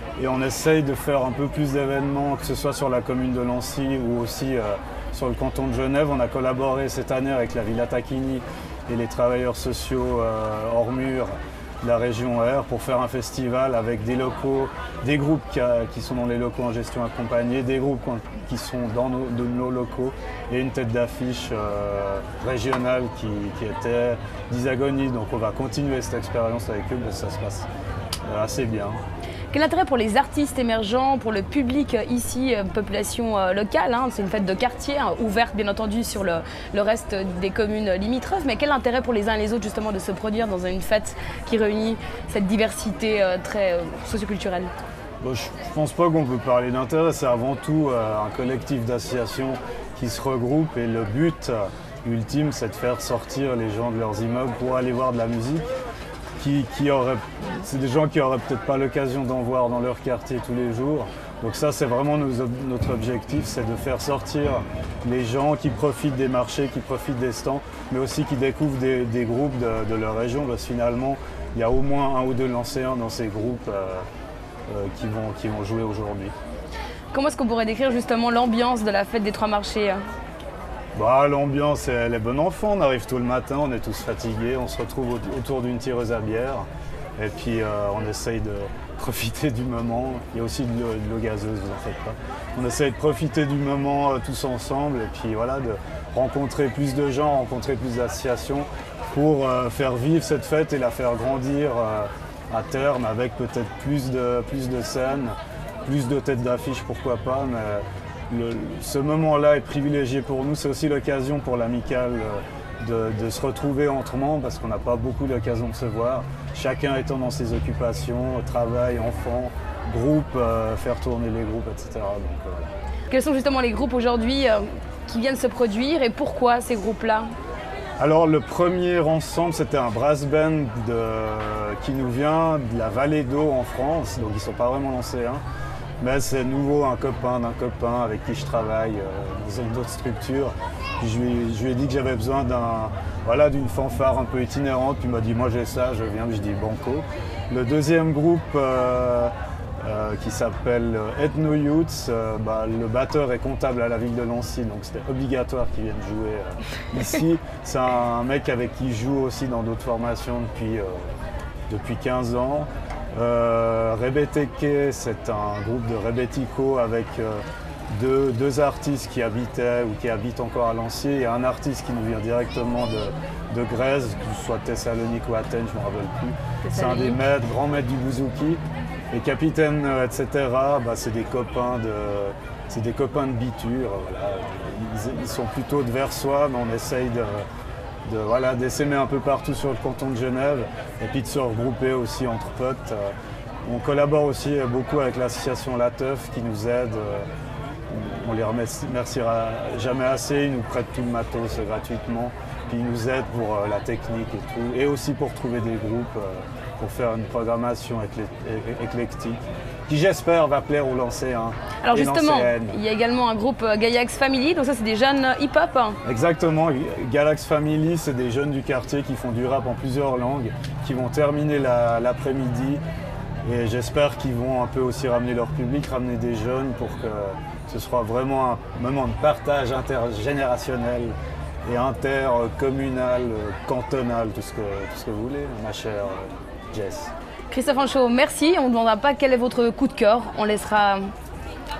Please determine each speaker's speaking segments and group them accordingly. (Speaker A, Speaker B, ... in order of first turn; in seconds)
Speaker A: 0.2-27.7, 28.2-29.0, 45.2-55.7, 56.4-74.0, 74.7-76.3, 80.9-86.7, 87.2-122.7, 128.0-135.4, 136.0-161.1, 161.7-178.6, 179.1-187.4, 188.1-193.1, 193.6-197.2, 197.9-212.8, 216.0-222.8, 223.4-231.1, 231.6-237.1
Speaker B: 29.5-44.7, 77.1-80.0, 123.1-127.3, 176.6-177.2, 211.8-216.0, 237.5-241.0